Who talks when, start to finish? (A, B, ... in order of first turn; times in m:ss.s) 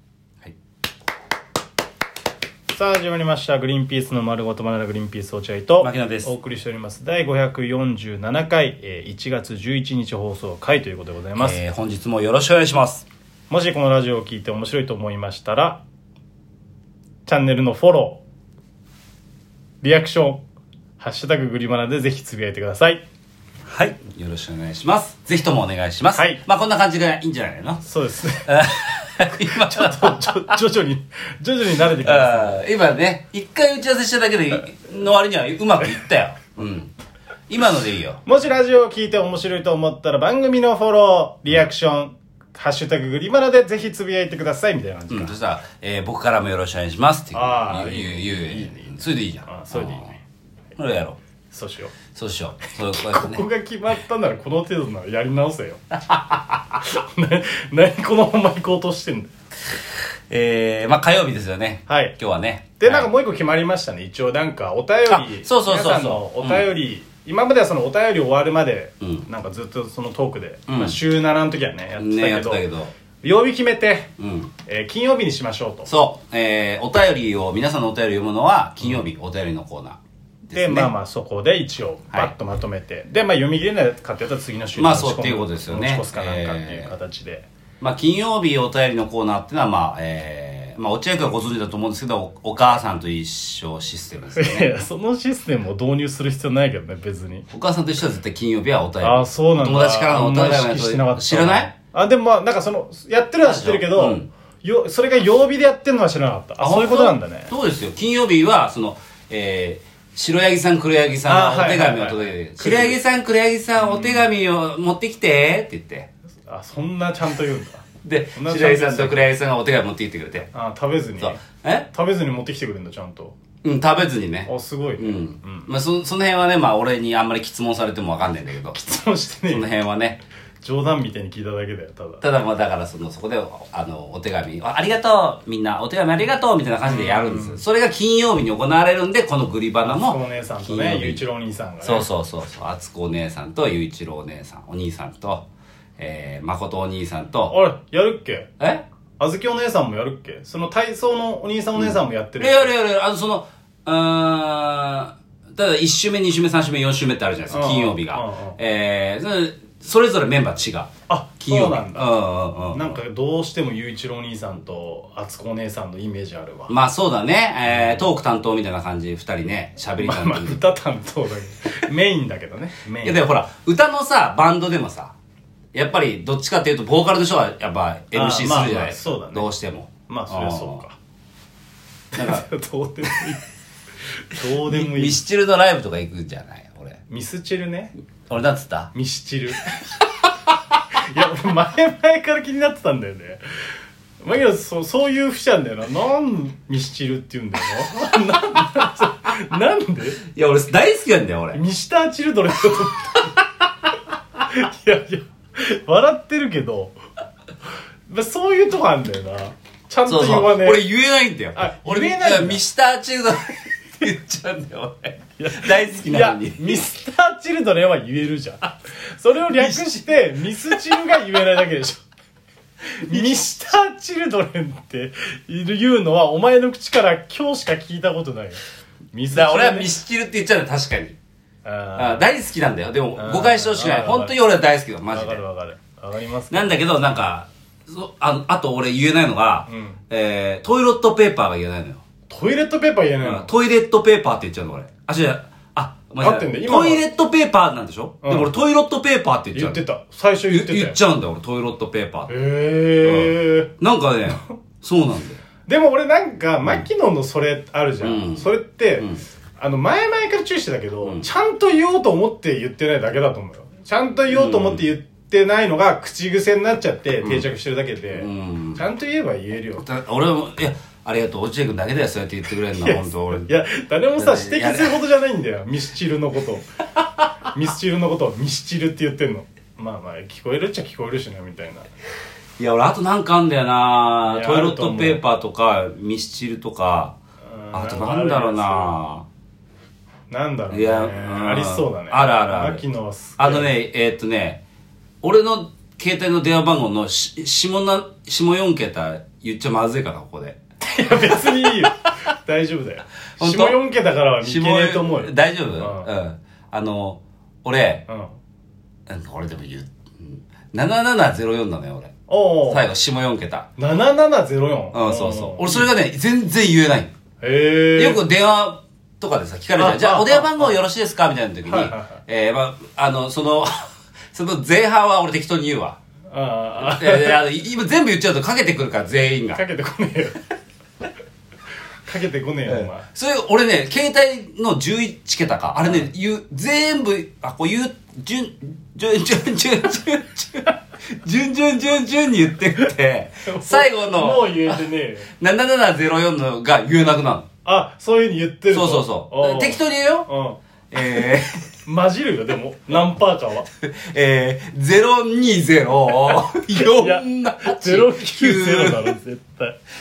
0:02.7-0:11.6 A
0:05.8-0:06.3 B
0:11.4-0:13.0 B
0:13.5-0:15.8 A
0:17.2-0:18.2 A
0:19.8-0:20.4 A
0:21.0-0:23.0 A
0:23.7-0:27.8 B
0:26.1-0:26.4 A
0:27.8-0:28.5 A
0:28.4-0:30.5 B
0:29.4-0:32.6 A
0:32.0-0:36.9 B
0:37.5-0:38.2 B
0:38.2-0:45.3 A
0:45.1-0:50.1 B
0:47.3-0:48.9 A
0:49.5-0:50.2 A
0:50.8-0:51.2 B
0:51.5-0:51.9 A
0:52.1-0:53.4 B
0:52.9-0:55.8 A
0:56.1-0:56.7 B
0:56.8-0:59.3 A
1:00.3-1:03.1 B
1:01.9-1:02.2 A
1:02.8-1:12.6 A
1:05.1-1:06.7 B
1:09.0-1:09.3 B
1:10.7-1:11.0 B
1:12.0-1:12.9 B
1:13.2-1:14.1 A
1:14.2-1:14.5 B
1:14.6-1:15.9 A
1:15.8-1:20.9 B
1:20.5-1:27.5 A
1:24.8-1:26.9 B
1:27.8-1:34.8 B
1:34.4-1:37.4 A
1:37.5-1:41.7 B
1:39.0-1:47.5 A
1:43.4-1:44.3 B
1:46.6-1:56.1 B
1:51.2-1:53.0 A
1:53.8-1:54.3 A
1:56.5-1:57.8 A
1:58.0-2:00.5 B
1:58.4-1:59.3 A
2:00.5-2:03.4 A
2:01.2-2:01.9 B
2:03.6-2:08.8 B
2:04.5-2:05.7 A
2:08.7-2:09.7 A
2:09.5-2:10.2 B
2:10.6-2:12.2 A
2:12.2-2:21.2 B
2:16.8-2:17.6 A
2:19.8-2:22.1 A
2:21.8-2:25.4 B
2:26.0-2:27.6 B
2:27.5-2:28.5 A
2:28.6-2:28.8 B
2:29.2-2:32.7 A
2:31.8-2:43.0 B
2:37.5-2:38.6 A
2:41.1-2:42.1 A
2:42.7-2:46.7 A
2:46.7-2:50.6 B
2:47.7-2:48.1 A
2:50.0-2:53.2 A
2:53.0-2:55.1 B
2:55.7-3:00.8 B
2:58.1-2:59.5 A
3:00.1-3:01.0 A
3:02.1-3:03.4 A
3:02.2-3:02.4 B
3:04.3-3:05.2 A
3:04.6-3:07.0 B
3:07.1-3:07.9 A
3:08.3-3:08.9 B
3:08.9-3:09.6 A
3:11.0-3:13.4 A
3:14.2-3:20.2 A
3:20.2-3:21.6 B
3:21.5-3:23.6 A
3:24.4-3:26.9 A
3:28.1-3:30.8 A
3:30.0-3:36.8 B
3:31.6-3:32.6 A
3:35.4-3:42.0 A
3:39.6-3:39.8 B
3:43.0-3:48.6 A
3:49.1-3:49.9 A
3:49.3-3:51.2 B
3:51.6-3:52.2 A
3:52.0-3:55.4 B
3:53.2-3:54.4 A
3:55.1-3:56.8 A
3:56.5-4:02.0 B
3:59.7-4:00.0 A
4:02.3-4:03.5 A
4:03.2-4:09.8 B
4:06.2-4:07.0 A
4:08.2-4:08.5 A
4:09.5-4:11.0 A
4:10.5-4:12.3 B
4:12.3-4:13.7 A
4:13.0-4:15.4 B
4:15.7-4:19.0 A
4:18.0-4:19.2 B
4:19.6-4:29.8 A
4:24.3-4:24.8 B
4:28.1-4:28.8 B
4:29.8-4:33.5 B
4:32.7-4:36.7 A
4:34.2-4:35.0 B
4:37.5-4:41.9 A
4:42.6-4:47.2 B
4:44.2-4:45.2 A
4:47.4-4:49.0 A
4:47.7-4:49.2 B
4:50.3-4:53.7 A
4:50.7-4:52.8 B
4:53.4-4:54.6 B
4:55.2-5:00.6 B
5:00.8-5:06.1 A
5:01.2-5:01.5 B
5:03.4-5:03.8 B
5:04.4-5:08.0 B
5:08.1-5:08.3 A
5:09.1-5:12.1 B
5:12.3-5:12.8 A
5:12.7-5:13.7 B
5:13.8-5:15.9 A
5:14.9-5:17.1 B
5:17.4-5:18.2 A
5:18.0-5:26.0 B
5:19.8-5:20.8 A
5:21.6-5:22.1 A
5:26.3-5:27.4 A
5:26.8-5:29.6 B
5:29.5-5:30.4 A
5:32.0-5:33.0 A
5:32.7-5:44.8 B
5:43.5-5:45.3 A
5:45.4-5:47.5 B
5:47.6-5:50.6 A
5:48.7-5:50.3 B
5:50.9-5:51.7 B
5:51.8-5:53.7 A
5:53.8-5:59.2 B
5:56.3-5:59.8 A